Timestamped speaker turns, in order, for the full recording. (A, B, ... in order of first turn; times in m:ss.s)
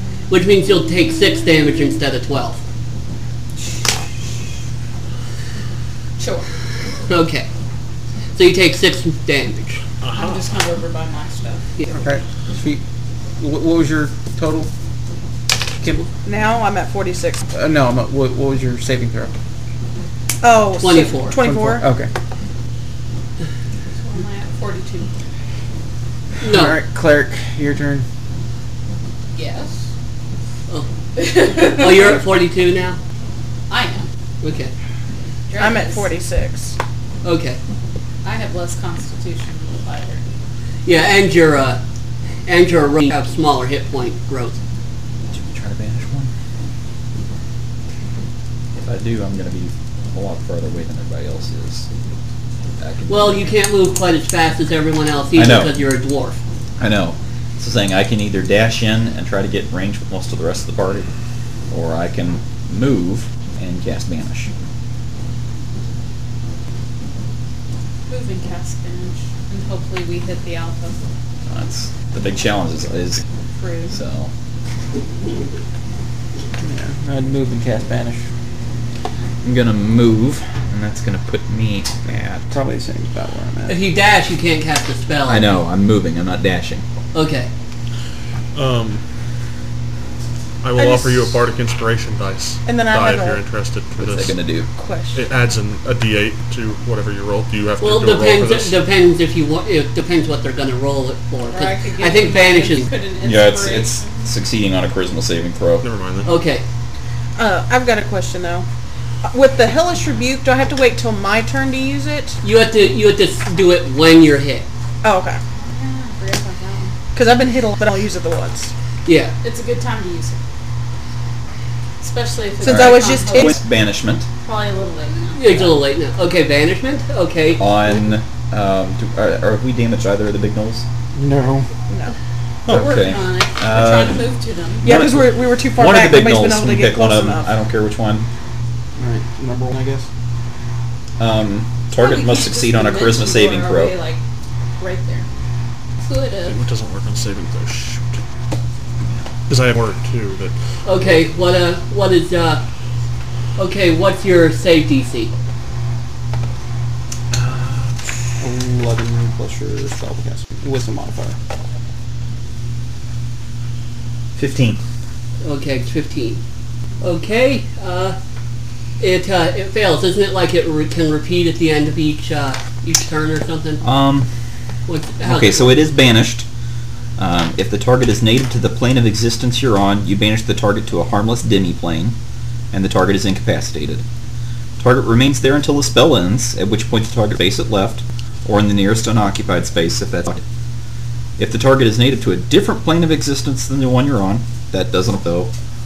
0:00.3-0:02.6 A
0:06.2-0:06.5 B
0:07.1-0:07.5 A
0:08.3-0:09.8 A
0:10.0-0:10.4 C
0:10.1-0:11.6 B
0:11.9-0:12.8 D
0:13.4-0:14.7 D
0:16.2-0:17.4 E
0:17.5-0:19.3 D
0:20.4-0:21.8 E
0:20.8-0:21.4 A
0:21.4-0:22.1 D
0:24.0-0:25.1 B
0:26.4-0:26.8 A
0:26.4-0:28.0 D
0:29.3-0:29.7 B
0:31.2-0:32.2 B
0:31.5-0:33.0 A
0:33.7-0:34.1 B
0:34.4-0:34.7 A
0:35.5-0:36.1 B
0:35.6-0:36.8 E
0:37.2-0:37.6 A
0:38.2-0:40.2 B
0:40.8-0:41.8 A
0:42.4-0:44.6 A
0:45.3-0:46.3 F
0:48.7-0:51.9 F
0:52.8-0:53.4 F
0:53.1-0:56.4 A
0:55.3-0:55.7 F
0:56.8-1:01.1 F
1:01.7-1:04.5 F
1:08.1-1:11.0 B
1:11.5-1:13.2 F
1:13.6-1:13.9 E
1:13.9-1:14.3 F
1:16.6-1:18.2 D
1:19.4-1:22.5 F
1:22.1-1:23.8 D
1:23.7-1:25.6 A
1:25.3-1:26.8 F
1:27.1-1:27.5 A
1:28.5-1:29.0 C
1:30.6-1:34.4 C
1:30.8-1:31.3 E
1:32.6-1:33.4 E
1:34.0-1:34.7 F
1:34.7-1:35.2 E
1:35.1-1:38.8 C
1:37.8-1:42.9 A
1:41.5-1:44.3 B
1:43.2-1:45.8 F
1:45.8-1:46.3 C
1:46.2-1:46.6 A
1:47.4-1:48.6 E
1:49.2-1:52.4 E
1:52.4-1:54.6 A
1:55.0-1:55.4 E
1:55.6-1:56.9 B
1:57.1-1:58.7 E
1:59.0-1:59.3 A
1:59.4-2:00.4 B
2:02.0-2:03.6 B
2:02.6-2:03.6 E
2:02.6-2:04.3 F
2:04.4-2:05.7 B
2:05.4-2:07.7 A
2:07.6-2:10.8 F
2:11.1-2:11.7 D
2:12.7-2:18.3 F
2:12.7-2:15.0 B
2:14.8-2:17.5 E
2:19.0-2:20.1 D
2:21.2-2:23.9 F
2:21.9-2:24.2 B
2:24.8-2:25.3 B
2:26.0-2:26.6 B
2:26.4-2:28.0 C
2:29.5-2:30.5 C
2:30.8-2:32.6 A
2:33.6-2:35.3 A
2:37.3-2:37.9 F
2:38.4-2:41.4 D
2:44.4-2:44.8 F
2:45.4-2:46.4 A
2:47.0-2:48.2 A
2:49.0-2:53.8 A
2:53.8-2:54.3 F
2:54.9-2:55.8 A
2:55.2-2:56.5 F
2:57.2-3:02.2 F
3:02.7-3:04.0 F
3:04.8-3:10.4 F
3:11.4-3:15.5 F